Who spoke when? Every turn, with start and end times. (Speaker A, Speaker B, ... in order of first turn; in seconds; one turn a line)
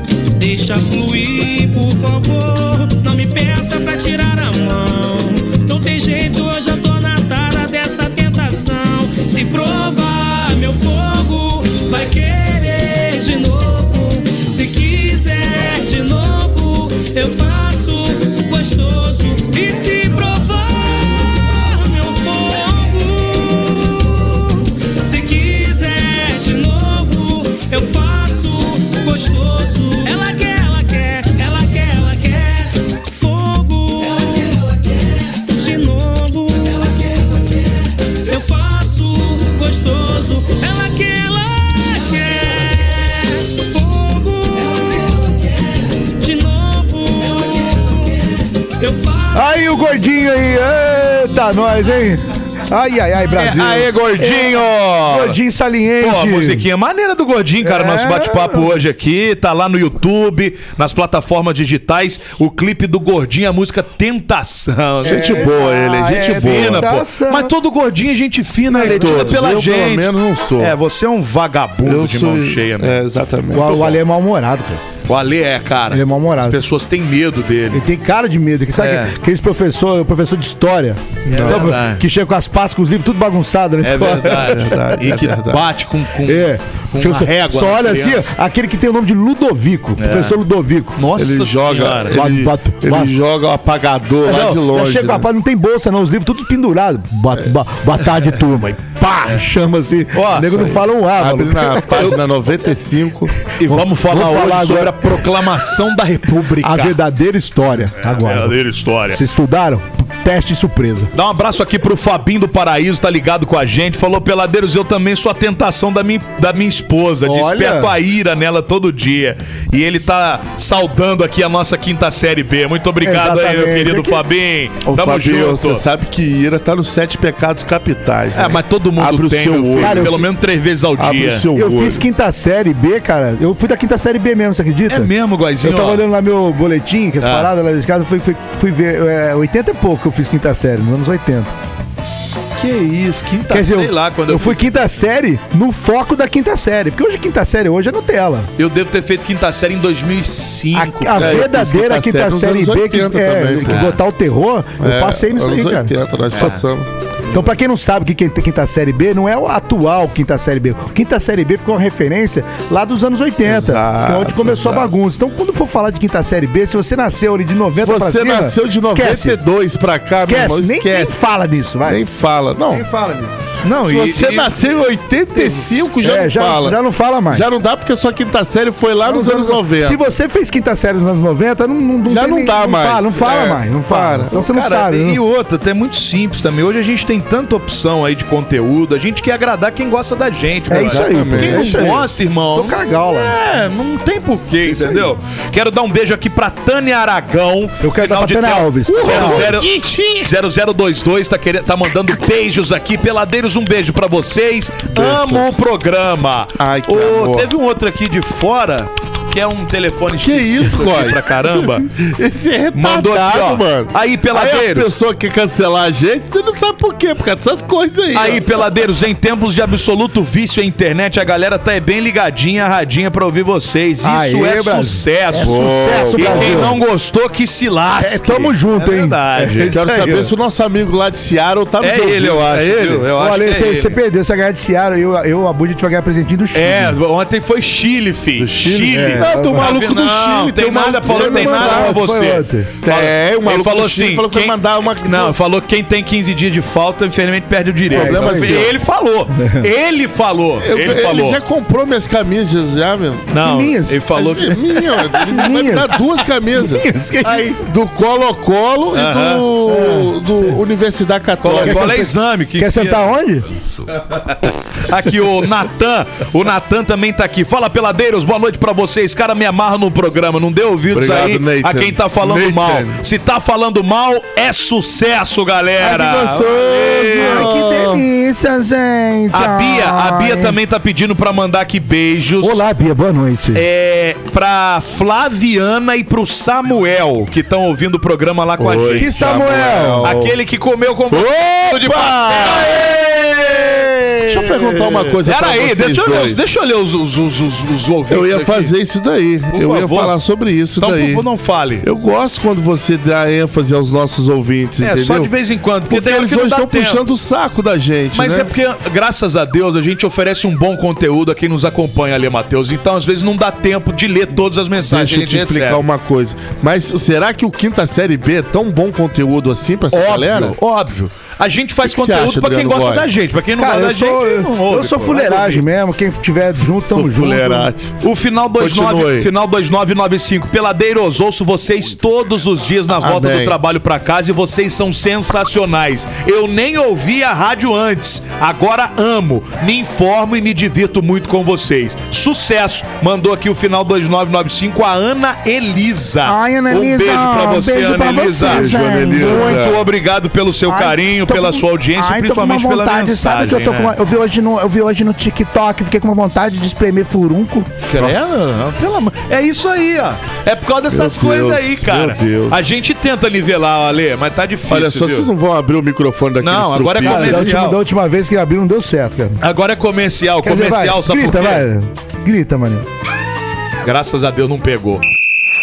Speaker A: 0.4-49.5
Speaker B: 49.3-56.7
Speaker C: 53.3-55.4
Speaker C: 56.0-65.5
Speaker B: 57.6-58.8
Speaker D: 65.0-66.9
Speaker B: 65.0-67.5
Speaker C: 66.2-73.0
Speaker B: 68.7-69.5
Speaker D: 68.8-70.8
Speaker D: 71.8-73.8
Speaker B: 73.5-74.8
Speaker C: 73.6-74.0
Speaker C: 75.0-77.8
Speaker B: 75.9-76.6
Speaker B: 77.7-85.0
Speaker C: 78.8-79.2
Speaker C: 81.3-82.0
Speaker D: 81.3-81.8
Speaker C: 83.8-88.3
Speaker D: 84.0-85.6
Speaker B: 86.2-91.0
Speaker C: 90.0-90.4
Speaker C: 91.0-92.2
Speaker D: 91.2-95.2
Speaker B: 92.1-93.2
Speaker C: 94.2-94.6
Speaker B: 94.6-102.2
Speaker C: 100.1-100.8
Speaker D: 101.2-103.4
Speaker C: 101.9-102.2
Speaker C: 103.5-107.0
Speaker B: 103.7-105.3
Speaker B: 106.6-108.6
Speaker C: 108.1-109.2
Speaker B: 109.1-111.1
Speaker C: 111.1-125.8
Speaker B: 117.2-118.0
Speaker B: 123.0-124.2
Speaker D: 124.9-130.2
Speaker C: 128.3-131.5
Speaker B: 129.8-130.2
Speaker D: 131.0-132.1
Speaker B: 131.5-135.1
Speaker C: 134.9-136.1
Speaker B: 135.6-141.5
Speaker C: 137.2-137.5
Speaker C: 142.6-145.0
Speaker B: 143.5-148.5
Speaker C: 148.6-151.5
Speaker B: 150.7-156.6
Speaker D: 151.2-153.9
Speaker C: 153.7-154.0
Speaker D: 154.8-157.5
Speaker C: 156.3-156.7
Speaker B: 157.3-169.4
Speaker D: 163.4-164.9
Speaker D: 167.8-171.2
Speaker B: 170.2-172.0
Speaker D: 171.9-172.8
Speaker B: 172.7-173.4
Speaker C: 173.6-174.8
Speaker D: 173.8-176.8
Speaker B: 175.4-177.5
Speaker D: 177.3-180.0
Speaker B: 179.0-185.2
Speaker D: 182.1-184.3
Speaker C: 184.3-211.9
Speaker B: 190.7-193.4
Speaker D: 190.7-191.9
Speaker B: 194.6-195.1
Speaker B: 197.8-199.6
Speaker D: 198.9-200.1
Speaker D: 204.9-205.5
Speaker D: 206.6-207.5
Speaker D: 210.2-218.5
Speaker C: 212.7-214.9
Speaker C: 218.1-229.7
Speaker B: 224.0-226.8
Speaker D: 225.3-226.8
Speaker B: 228.0-230.3
Speaker D: 229.7-233.1
Speaker C: 231.8-234.0
Speaker B: 233.1-237.0
Speaker C: 236.5-251.4
Speaker D: 238.4-242.0
Speaker B: 238.9-239.7
Speaker B: 241.1-242.7
Speaker D: 242.8-245.3
Speaker D: 247.9-248.7
Speaker B: 247.9-248.7
Speaker B: 249.4-249.7
Speaker D: 250.6-253.3
Speaker C: 253.3-255.4
Speaker B: 253.4-254.2
Speaker D: 254.2-256.9
Speaker B: 255.2-256.0
Speaker B: 256.5-257.5
Speaker C: 257.3-257.6
Speaker D: 257.6-262.1
Speaker C: 258.9-259.5
Speaker B: 259.7-260.6
Speaker C: 261.4-263.1
Speaker B: 261.6-263.4
Speaker C: 263.9-278.0
Speaker D: 270.9-273.0
Speaker D: 275.8-277.7
Speaker B: 277.2-280.6
Speaker C: 279.3-282.6
Speaker B: 282.4-283.6
Speaker C: 283.5-289.5
Speaker D: 288.6-290.4
Speaker B: 288.9-290.1
Speaker C: 290.0-298.7
Speaker D: 291.1-296.4
Speaker D: 298.1-301.2
Speaker C: 299.5-300.2
Speaker C: 300.8-301.9
Speaker D: 301.8-305.3
Speaker C: 304.8-307.0
Speaker D: 305.9-308.5
Speaker C: 308.1-315.8
Speaker D: 314.9-320.6
Speaker C: 319.9-325.6
Speaker D: 321.8-323.1
Speaker B: 323.6-327.7
Speaker D: 326.8-327.9
Speaker C: 328.0-353.9
Speaker D: 328.6-329.3
Speaker D: 333.0-333.6
Speaker B: 346.2-349.7
Speaker D: 348.4-349.8
Speaker B: 350.7-357.8
Speaker C: 357.9-365.3
Speaker D: 358.0-358.4
Speaker D: 360.9-362.6
Speaker D: 364.7-367.6
Speaker C: 366.4-367.8
Speaker B: 367.0-369.4
Speaker C: 369.4-371.6
Speaker B: 370.4-372.9
Speaker C: 373.8-375.0